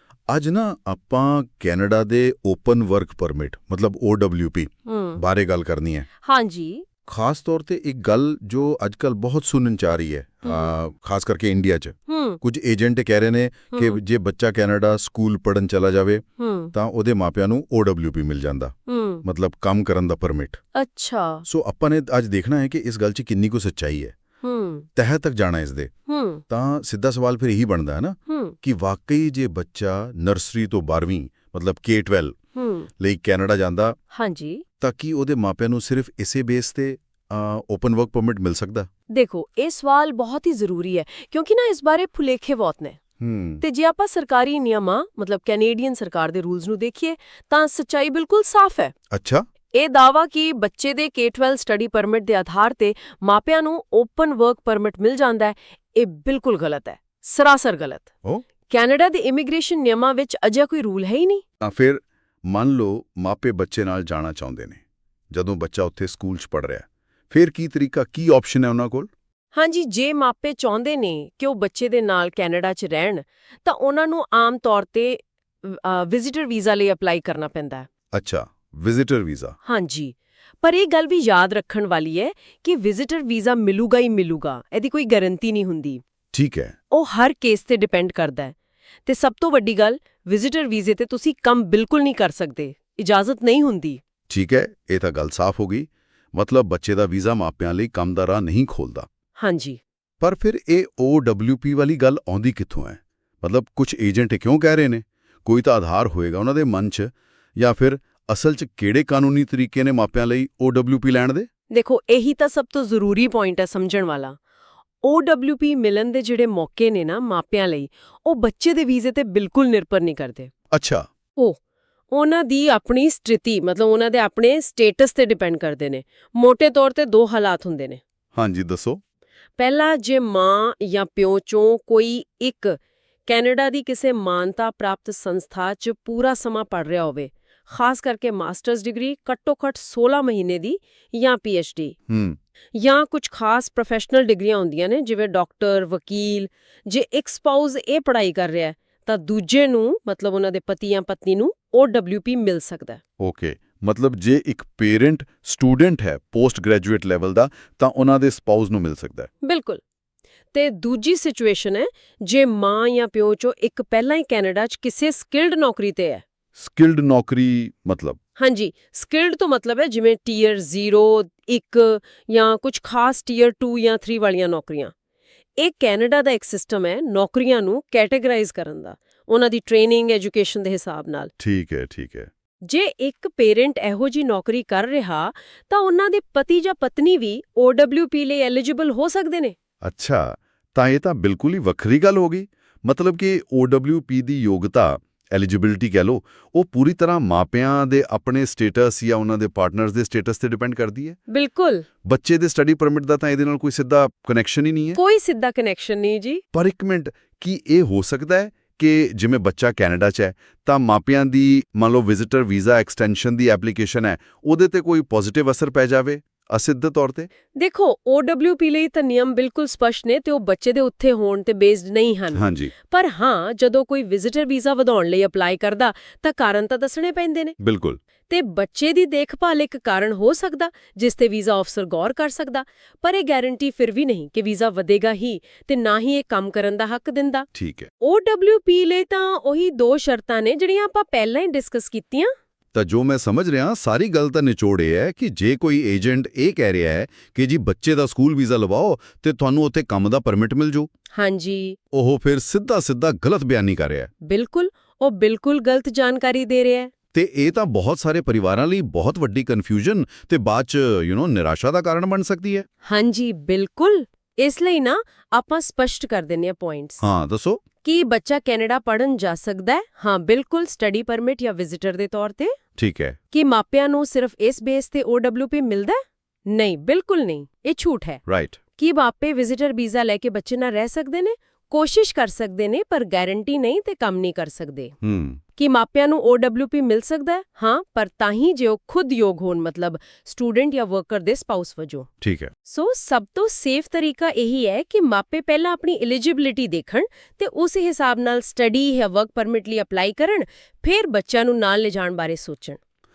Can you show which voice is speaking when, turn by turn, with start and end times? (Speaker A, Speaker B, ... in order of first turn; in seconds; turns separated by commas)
Speaker A: 0.3-6.1, Speaker B: 4.9-5.2, Speaker B: 6.2-6.8, Speaker A: 7.1-18.7, Speaker B: 10.4-10.7, Speaker B: 12.1-12.4, Speaker B: 13.7-14.0, Speaker B: 16.4-16.7, Speaker B: 18.9-19.2, Speaker A: 19.2-20.6, Speaker B: 20.7-21.4, Speaker A: 21.4-24.1, Speaker B: 24.4-24.9, Speaker A: 24.9-25.9, Speaker B: 26.1-26.4, Speaker A: 26.5-32.3, Speaker B: 28.3-28.6, Speaker B: 32.5-32.9, Speaker A: 33.0-34.0, Speaker B: 34.1-34.6, Speaker A: 34.8-38.9, Speaker B: 39.1-43.0, Speaker A: 43.2-43.6, Speaker B: 43.6-48.9, Speaker A: 49.1-49.4, Speaker B: 49.7-58.1, Speaker B: 58.7-61.4, Speaker A: 61.6-69.1, Speaker B: 69.5-77.9, Speaker A: 78.1-79.5, Speaker B: 79.6-86.0, Speaker A: 86.3-86.7, Speaker B: 86.9-88.5, Speaker B: 89.0-94.0, Speaker A: 94.3-99.1, Speaker B: 99.4-99.8, Speaker A: 100.2-111.5, Speaker B: 111.7-114.4, Speaker B: 115.0-120.5, Speaker A: 120.7-121.0, Speaker B: 122.1-128.0, Speaker A: 128.3-129.0, Speaker B: 129.6-141.9, Speaker A: 142.1-142.4, Speaker B: 142.7-153.0, Speaker A: 153.2-159.3, Speaker B: 159.4-159.8, Speaker B: 160.5-166.2, Speaker A: 166.6-168.2, Speaker B: 168.4-174.9, Speaker B: 175.6-181.3, Speaker A: 181.4-182.3, Speaker B: 182.6-189.6, Speaker A: 189.8-201.2, Speaker B: 201.3-201.8, Speaker A: 202.0-205.0, Speaker B: 204.9-206.4, Speaker A: 206.5-217.3, Speaker B: 217.6-227.6, Speaker A: 222.3-222.7, Speaker A: 227.6-228.0, Speaker B: 228.3-237.5, Speaker A: 237.5-237.9, Speaker B: 238.0-242.3, Speaker A: 242.7-250.9, Speaker B: 251.1-251.8, Speaker A: 251.9-254.1, Speaker B: 254.2-256.9, Speaker A: 257.1-262.6, Speaker B: 262.8-267.0, Speaker A: 267.0-267.6, Speaker B: 267.8-272.5, Speaker A: 272.8-273.2, Speaker B: 273.3-278.2, Speaker A: 278.2-278.6, Speaker B: 278.8-284.9, Speaker A: 285.0-285.4, Speaker B: 285.6-292.1, Speaker A: 292.2-292.5, Speaker B: 292.7-302.8